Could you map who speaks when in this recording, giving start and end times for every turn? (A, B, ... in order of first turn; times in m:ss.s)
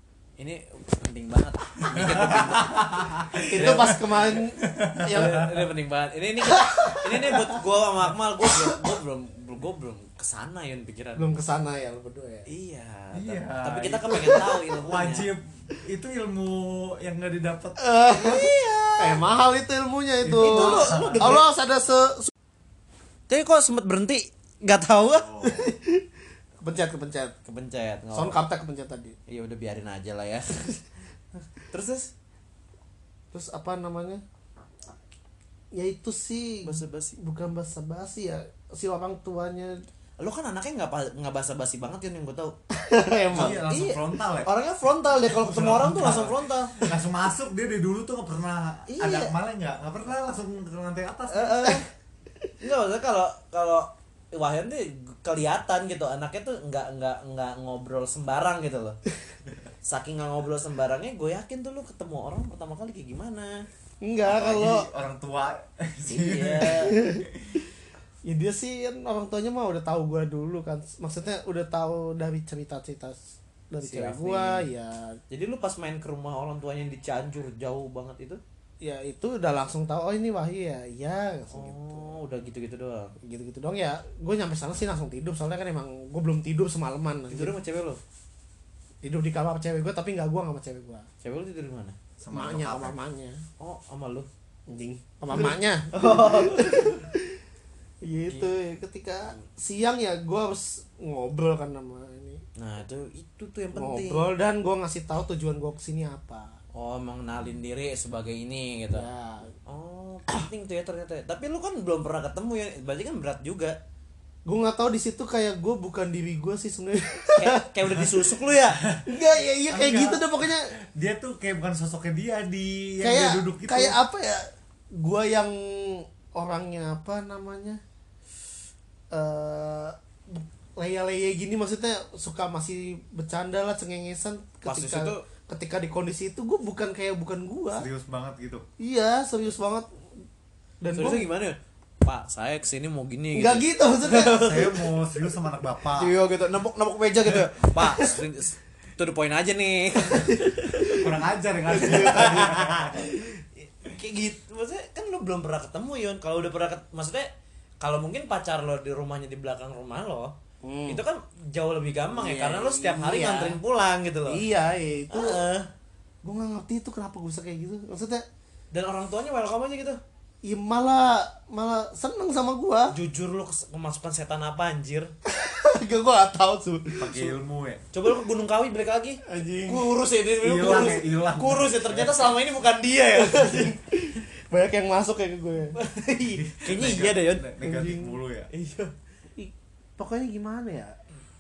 0:00.4-0:03.9 A
0:01.9-0:05.7 B
0:03.4-0:05.6 C
0:05.1-0:11.4 A
0:06.4-0:07.6 C
0:11.2-0:12.5 C
0:12.5-0:15.3 A
0:13.2-0:17.8 B
0:17.8-0:22.3 C
0:18.1-0:19.2 A
0:20.2-0:21.5 B
0:20.4-0:21.4 A
0:23.3-0:25.3 A
0:25.1-0:25.7 B
0:25.4-0:26.1 C
0:26.6-0:27.4 C
0:27.5-0:28.4 A
0:28.1-0:29.2 C
0:29.3-0:30.6 A
0:31.7-0:32.1 A
0:33.3-0:34.2 C
0:35.7-0:39.8 C
0:36.6-0:37.2 A
0:40.2-0:42.6 A
0:42.7-0:43.6 C
0:43.3-0:46.9 A
0:43.3-0:44.5 B
0:45.3-0:51.7 B
0:48.9-0:49.3 A
0:51.3-0:51.9 A
0:52.6-0:59.0 A
0:59.8-1:03.7 A
1:04.0-1:04.9 C
1:04.2-1:07.5 B
1:06.1-1:07.0 A
1:06.8-1:07.3 C
1:08.2-1:15.2 C
1:13.8-1:14.6 A
1:15.3-1:18.4 A
1:18.8-1:22.2 C
1:21.5-1:23.2 A
1:23.2-1:27.5 C
1:27.3-1:28.0 A
1:29.0-1:31.1 C
1:31.2-1:32.0 A
1:32.2-1:33.0 B
1:32.3-1:33.4 C
1:33.6-1:34.3 A
1:34.7-1:37.4 C
1:35.3-1:37.0 A
1:38.0-1:42.4 C
1:42.6-1:44.3 A
1:43.8-1:46.6 C
1:46.7-1:49.1 A
1:48.9-1:49.5 C
1:49.7-1:53.8 A
1:54.5-1:57.6 C
1:57.4-1:58.8 A
1:58.8-1:59.1 B
1:59.1-2:00.7 C
1:59.7-2:04.0 B
2:03.0-2:07.8 C
2:09.1-2:17.9 C
2:14.6-2:15.3 A
2:17.8-2:18.6 B
2:18.8-2:19.9 C
2:20.8-2:21.3 C
2:20.9-2:24.8 A
2:23.3-2:24.6 C
2:24.2-2:26.1 B
2:26.0-2:31.0 A
2:30.1-2:31.1 C
2:30.8-2:33.1 B
2:31.7-2:32.4 C
2:31.8-2:37.3 A
2:37.8-2:40.4 A
2:40.6-2:41.0 C
2:40.9-2:44.4 A
2:42.1-2:43.6 C
2:44.3-2:45.4 C
2:45.1-2:45.7 A
2:46.2-2:48.2 C
2:48.7-2:50.0 A
2:50.4-2:52.9 C
2:52.9-2:55.1 A
2:55.3-2:57.3 C
2:57.0-2:57.8 B
2:57.9-3:03.8 A
2:59.3-2:59.9 C
3:00.4-3:02.4 B
3:03.2-3:05.8 C
3:05.8-3:07.5 A
3:06.3-3:08.5 B
3:07.6-3:08.2 C
3:08.5-3:08.9 A
3:09.4-3:11.0 C